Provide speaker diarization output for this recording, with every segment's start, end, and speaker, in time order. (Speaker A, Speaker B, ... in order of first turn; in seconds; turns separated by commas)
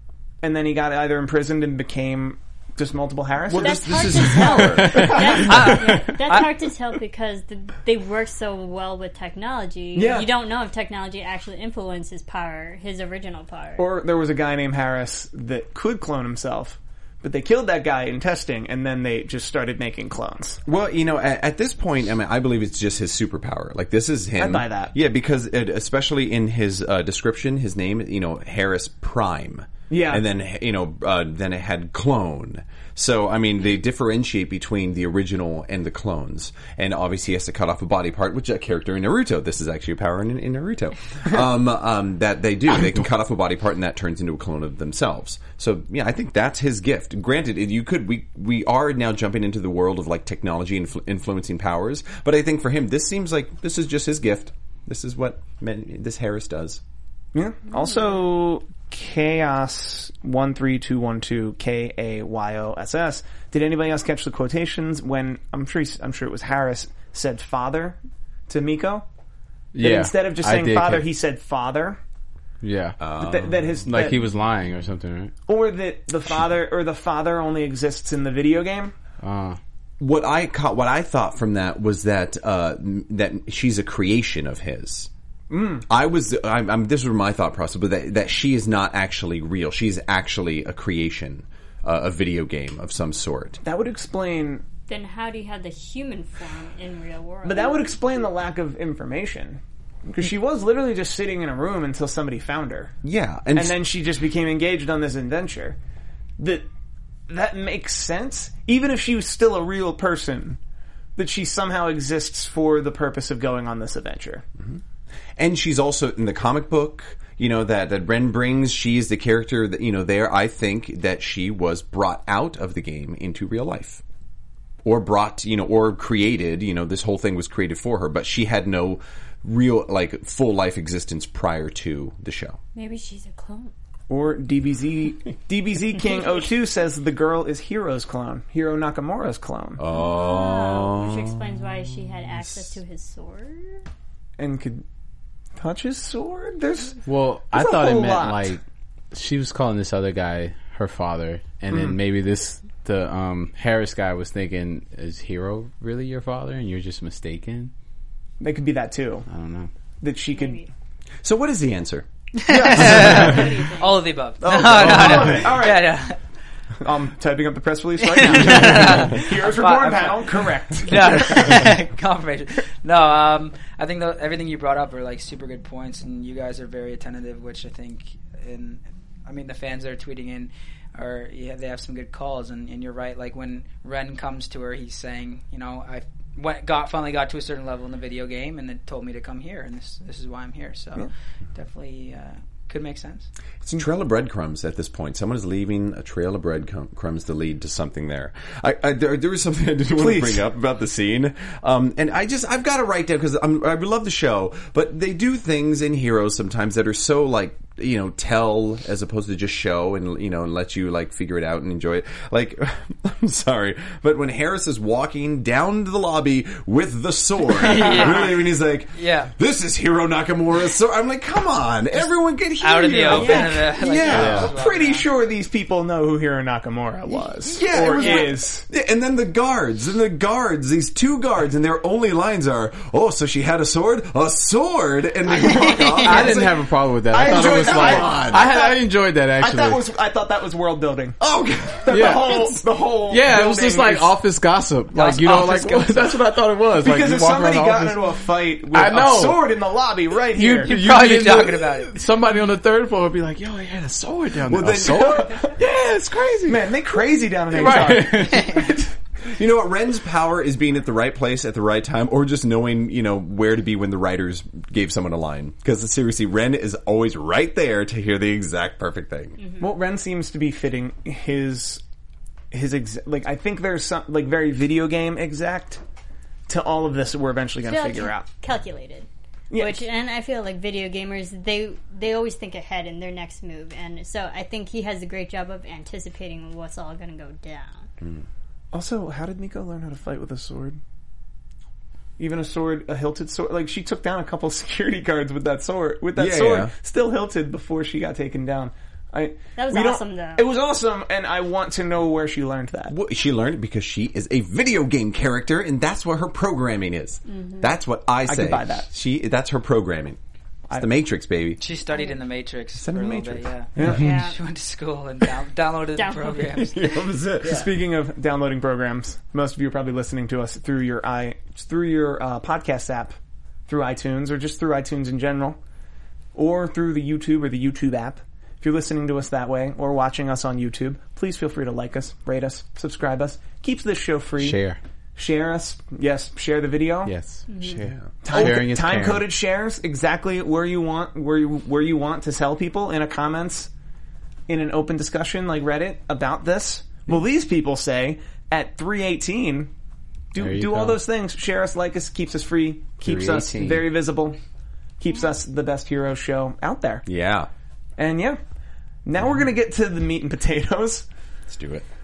Speaker A: 0.4-5.9, Speaker B: 3.5-5.4, Speaker C: 3.5-13.9, Speaker D: 4.8-5.9, Speaker E: 5.4-6.5, Speaker A: 9.9-10.3, Speaker A: 13.8-20.6, Speaker B: 20.6-56.8, Speaker A: 24.4-24.9, Speaker A: 29.9-30.2, Speaker A: 57.3-69.0, Speaker D: 69.7-71.1, Speaker A: 69.8-72.0, Speaker D: 72.6-73.0, Speaker B: 73.0-74.0, Speaker A: 73.2-74.2, Speaker D: 73.8-75.3, Speaker A: 75.5-78.9, Speaker D: 79.2-79.6, Speaker B: 80.0-85.1, Speaker A: 85.5-85.9, Speaker B: 85.9-93.6, Speaker A: 93.6-94.6, Speaker C: 94.9-98.1, Speaker A: 97.4-103.0, Speaker B: 103.0-103.8, Speaker A: 103.5-105.8, Speaker A: 106.4-106.7, Speaker A: 107.3-110.6, Speaker A: 111.2-114.4, Speaker B: 115.4-124.0, Speaker B: 124.8-132.6, Speaker C: 132.7-133.7, Speaker A: 134.1-139.8, Speaker B: 139.8-141.6, Speaker C: 139.9-143.8, Speaker A: 144.4-144.8, Speaker A: 145.6-147.0, Speaker D: 147.1-148.6, Speaker A: 147.5-148.6, Speaker D: 149.1-157.7, Speaker A: 158.4-159.3, Speaker D: 159.3-159.7, Speaker A: 160.0-160.7, Speaker C: 160.3-160.7, Speaker B: 161.2-163.4, Speaker E: 162.4-166.2, Speaker A: 162.7-163.1, Speaker C: 163.2-164.0, Speaker B: 164.4-165.4, Speaker A: 164.4-166.1, Speaker A: 166.8-171.7, Speaker E: 168.0-193.3, Speaker B: 193.6-224.5, Speaker A: 199.9-200.5, Speaker E: 217.6-219.3, Speaker E: 222.6-225.1, Speaker A: 223.1-228.7, Speaker D: 224.1-224.5, Speaker B: 227.5-236.6, Speaker E: 235.4-236.3, Speaker D: 236.0-239.8, Speaker A: 236.1-236.5, Speaker A: 237.1-241.2, Speaker B: 237.1-238.5, Speaker B: 241.2-242.2, Speaker A: 241.8-244.1, Speaker D: 241.9-242.5, Speaker D: 243.1-248.1, Speaker E: 244.9-245.9, Speaker A: 246.8-250.7, Speaker D: 248.7-249.4, Speaker D: 250.3-256.6, Speaker E: 250.6-252.0, Speaker B: 254.4-255.4, Speaker A: 255.1-255.5, Speaker A: 256.5-258.9, Speaker D: 257.5-258.7, Speaker B: 259.3-269.4, Speaker A: 269.6-271.8, Speaker A: 272.5-275.8, Speaker A: 276.5-278.3, Speaker C: 277.6-287.9, Speaker A: 279.5-279.9, Speaker A: 288.7-290.8, Speaker A: 292.2-302.9, Speaker B: 296.1-296.7, Speaker C: 299.6-300.5, Speaker B: 302.9-310.2, Speaker C: 307.2-307.8, Speaker A: 308.2-308.9, Speaker B: 310.7-311.6, Speaker E: 311.6-317.7, Speaker B: 312.8-313.5, Speaker A: 313.8-314.1, Speaker C: 313.9-314.4, Speaker C: 315.9-316.9, Speaker B: 316.6-317.7, Speaker A: 317.4-323.2, Speaker A: 323.7-325.6, Speaker A: 326.4-334.6, Speaker D: 334.4-334.8, Speaker A: 335.1-337.1, Speaker D: 337.1-339.2, Speaker C: 337.5-337.8, Speaker B: 337.8-338.1, Speaker A: 338.2-343.7, Speaker A: 344.5-349.7, Speaker A: 350.3-354.4, Speaker D: 350.4-351.0, Speaker D: 353.0-353.9, Speaker A: 355.0-357.1, Speaker B: 357.1-357.5, Speaker A: 358.0-358.4, Speaker A: 359.1-361.1, Speaker B: 361.5-361.9